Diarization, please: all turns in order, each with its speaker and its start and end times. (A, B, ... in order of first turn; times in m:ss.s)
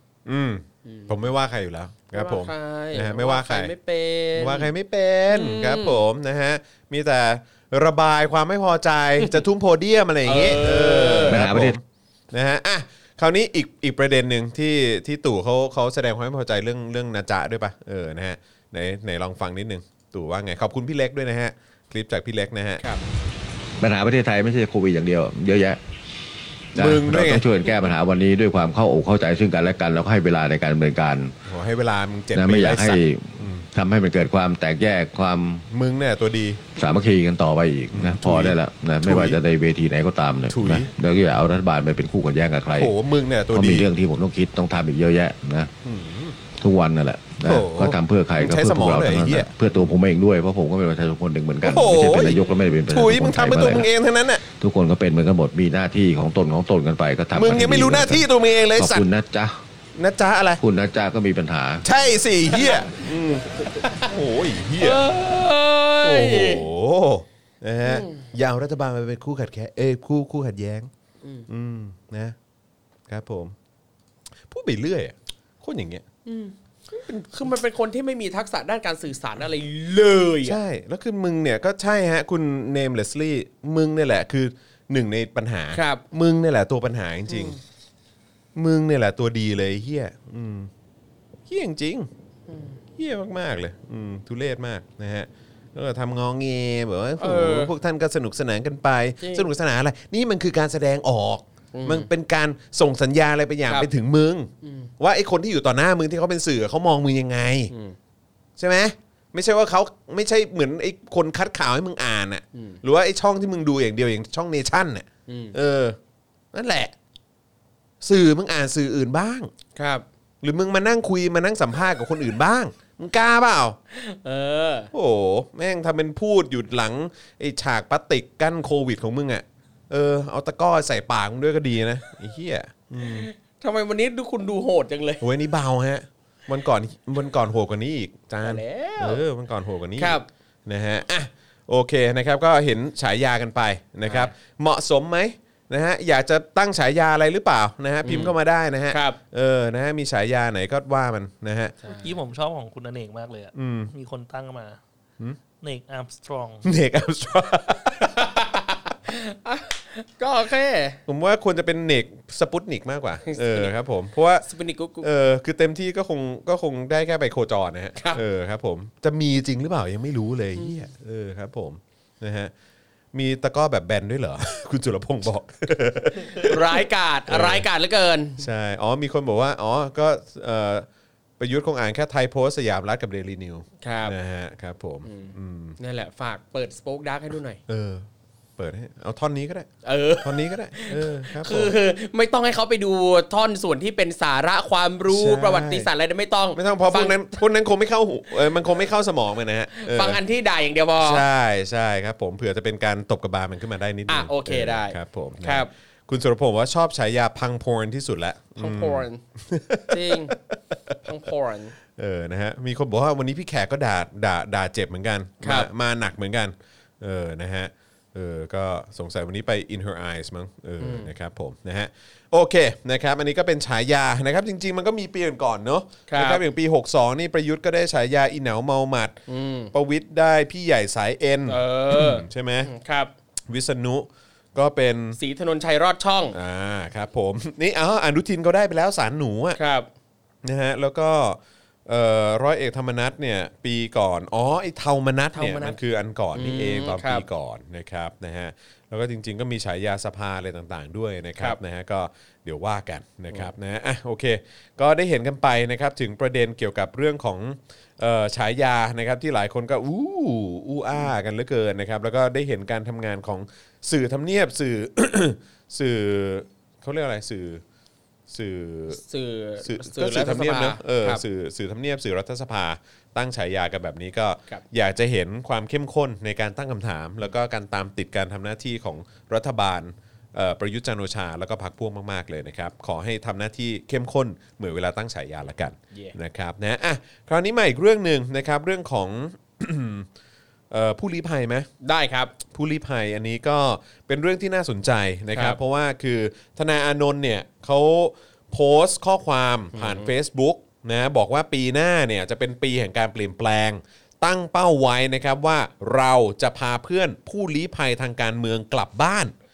0:00.3-0:03.7 A
0:00.8-0:01.1 B
0:02.1-0:04.7 B
0:04.4-0:22.8 A
0:05.3-0:06.0 B
0:10.2-0:11.4 B
0:11.3-0:11.8 C
0:23.8-0:25.8 C
0:26.8-0:27.5 A
0:26.8-0:31.4 C
0:31.5-0:33.7 A
0:32.3-0:35.7 C
0:35.7-0:36.6 A
0:36.8-0:42.9 C
0:37.9-0:39.4 A
0:40.5-0:40.9 A
0:42.7-0:43.9 A
0:43.5-0:45.7 C
0:45.8-0:46.4 A
0:46.5-0:53.9 C
0:47.4-0:49.8 A
0:51.6-0:54.4 A
0:54.5-0:58.2 C
0:57.3-0:59.1 A
0:58.8-0:59.6 C
1:00.0-1:00.6 A
1:00.6-1:01.8 C
1:01.8-1:05.0 A
1:02.5-1:03.0 B
1:03.7-1:04.1 B
1:04.8-1:06.7 B
1:06.0-1:10.9 A
1:07.8-1:08.2 B
1:11.2-1:11.5 B
1:11.5-1:12.4 A
1:13.1-1:13.6 A
1:14.5-1:16.0 A
1:16.2-1:20.6 B
1:20.4-1:27.6 A
1:25.7-1:26.0 B
1:27.3-1:27.6 B
1:28.6-1:30.7 A
1:31.5-1:32.1 A
1:32.5-1:32.8 B
1:33.0-1:47.7 A
1:37.2-1:37.7 B
1:39.2-1:39.5 B
1:41.7-1:42.1 B
1:44.6-1:44.9 B
1:47.7-1:48.0 B
1:48.6-1:56.0 A
1:52.5-1:52.8 B
1:55.3-1:55.6 B
1:56.5-1:56.9 A
1:58.0-1:59.5 A
1:59.8-2:00.0 B
2:00.4-2:03.8 A
2:03.9-2:04.9 B
2:04.9-2:13.3 A
2:13.0-2:15.2 B
2:15.2-2:31.8 A
2:18.4-2:19.2 B
2:20.0-2:20.3 B
2:24.1-2:24.3 B
2:28.0-2:28.3 B
2:28.9-2:29.2 B
2:31.8-2:32.1 B
2:32.0-2:34.8 D
2:33.6-2:33.9 A
2:35.6-2:36.7 D
2:36.6-2:38.1 A
2:38.0-2:41.0 B
2:41.1-2:44.5 A
2:43.3-2:43.7 B
2:44.4-2:45.1 B
2:45.0-2:52.5 A
2:53.1-2:57.7 A
2:56.3-2:58.4 B
2:58.4-3:00.9 A
3:01.4-3:05.8 A
3:03.8-3:04.1 B
3:05.0-3:07.6 B
3:07.7-3:08.1 A
3:08.6-3:09.7 A
3:09.8-3:17.3 B
3:10.2-3:11.7 A
3:15.1-3:15.9 A
3:16.6-3:20.2 A
3:19.8-3:21.2 B
3:21.0-3:31.0 A
3:24.1-3:25.7 B
3:28.6-3:29.2 B
3:29.9-3:30.3 B
3:31.0-3:31.7 B
3:32.0-3:49.2 A
3:35.4-3:35.7 B
3:40.8-3:41.1 B
3:46.1-3:46.4 B
3:49.3-3:49.7 B
3:49.7-3:52.7 A
3:51.5-3:53.1 B
3:53.5-3:55.2 A
3:55.2-3:56.4 B
3:56.3-3:59.6 A
3:59.6-3:59.9 B
4:00.4-4:27.6 A
4:05.4-4:05.8 B
4:06.3-4:07.2 B
4:28.3-4:29.0 A
4:28.9-4:31.2 B
4:29.6-4:50.1 A
4:50.7-4:51.7 A
4:51.8-4:52.3 B
4:52.5-5:09.3 A
4:55.3-4:55.6 B
4:59.7-5:00.1 B